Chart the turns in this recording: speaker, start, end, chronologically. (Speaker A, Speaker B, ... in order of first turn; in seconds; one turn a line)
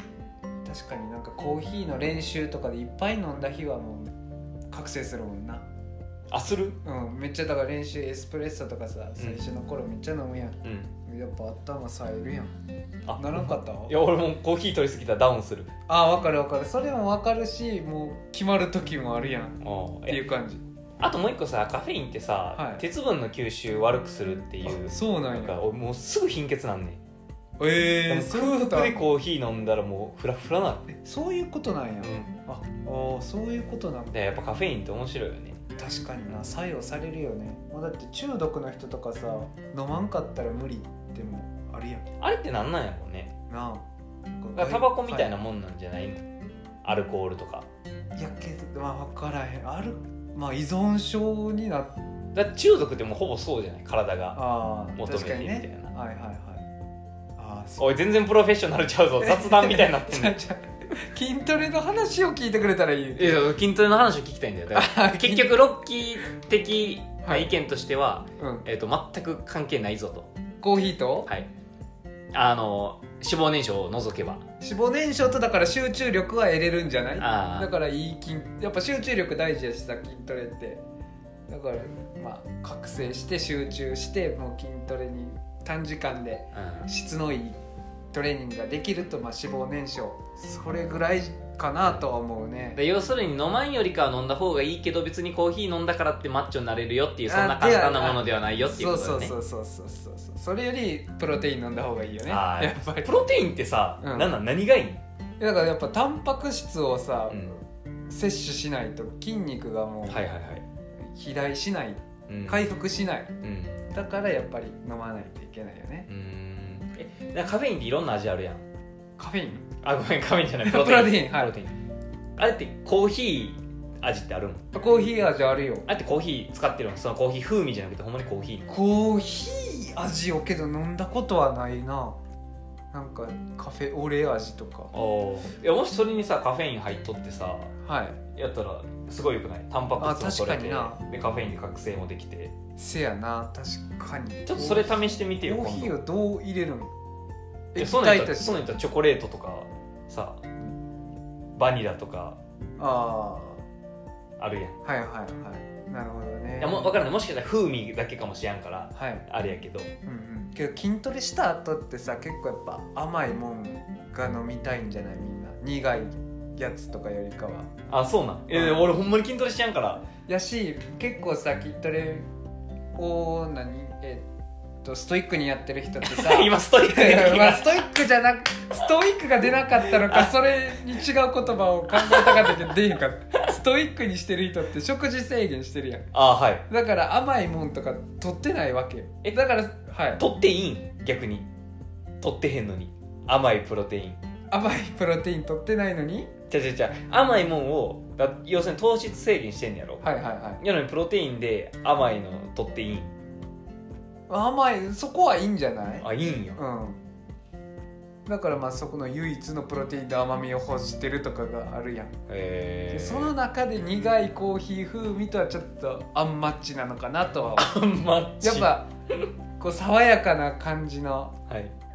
Speaker A: 0.7-4.1
Speaker A: 4.7-5.7
Speaker B: 6.3-6.8
Speaker A: 6.8-12.6
Speaker B: 9.2-9.4
Speaker B: 10.6-10.9
Speaker B: 13.1-15.7
Speaker A: 13.2-14.0
Speaker A: 15.9-20.6
Speaker B: 19.6-20.2
Speaker B: 21.0-27.0
Speaker A: 22.6-22.8
Speaker A: 24.7-25.6
Speaker A: 27.6-29.0
Speaker B: 28.1-30.9
Speaker A: 30.9-34.2
Speaker B: 32.0-32.3
Speaker B: 34.1-35.6
Speaker A: 35.8-42.0
Speaker B: 42.2-43.4
Speaker A: 43.5-45.3
Speaker B: 44.6-46.2
Speaker B: 46.8-47.7
Speaker A: 48.1-52.0
Speaker B: 52.4-54.4
Speaker A: 54.4-56.7
Speaker B: 55.0-55.9
Speaker A: 57.4-57.9
Speaker B: 57.8-60.4
Speaker A: 59.2-63.5
Speaker B: 63.2-70.3
Speaker A: 64.7-65.5
Speaker A: 67.2-67.5
Speaker A: 68.4-68.7
Speaker A: 70.6-71.3
Speaker B: 72.3-74.4
Speaker A: 74.6-80.8
Speaker B: 77.2-77.7
Speaker A: 81.5-87.6
Speaker B: 86.5-86.9
Speaker A: 88.1-92.8
Speaker B: 92.8-99.3
Speaker A: 97.3-103.1
Speaker B: 102.3-105.0
Speaker A: 104.0-104.3
Speaker A: 105.4-107.5
Speaker B: 107.3-107.6
Speaker A: 108.1-110.2
Speaker B: 110.1-110.6
Speaker A: 111.1-113.3
Speaker B: 112.3-112.6
Speaker B: 113.4-113.8
Speaker A: 113.9-116.1
Speaker B: 116.1-118.6
Speaker A: 119.2-119.7
Speaker B: 119.8-121.7
Speaker A: 120.7-121.6
Speaker B: 122.4-124.7
Speaker A: 124.7-125.9
Speaker B: 125.9-128.7
Speaker A: 128.7-132.2
Speaker A: 132.9-134.9
Speaker B: 134.9-137.7
Speaker A: 137.8-138.2
Speaker B: 138.3-142.5
Speaker A: 140.0-141.0
Speaker A: 142.8-146.9
Speaker B: 144.5-146.0
Speaker A: 147.8-148.8
Speaker B: 147.8-150.4
Speaker B: 151.6-152.4
Speaker A: 152.8-153.6
Speaker B: 154.4-154.8
Speaker A: 154.8-157.0
Speaker B: 156.6-159.9
Speaker A: 158.9-159.2
Speaker A: 160.1-167.7
Speaker B: 167.9-170.1
Speaker A: 168.5-168.9
Speaker A: 170.3-172.3
Speaker A: 173.0-174.3
Speaker A: 174.8-186.1
Speaker B: 176.0-177.8
Speaker B: 179.9-180.3
Speaker B: 181.9-182.8
Speaker B: 186.1-186.7
Speaker A: 186.7-190.2
Speaker B: 190.2-191.5
Speaker B: 192.2-194.2
Speaker A: 194.5-196.3
Speaker B: 196.5-200.1
Speaker A: 200.0-200.6
Speaker B: 200.6-203.1
Speaker A: 204.3-207.0
Speaker B: 206.0-206.6
Speaker A: 208.3-212.1
Speaker B: 212.3-213.3
Speaker A: 212.9-217.7
Speaker B: 217.6-218.8
Speaker A: 218.4-221.3
Speaker B: 221.5-221.7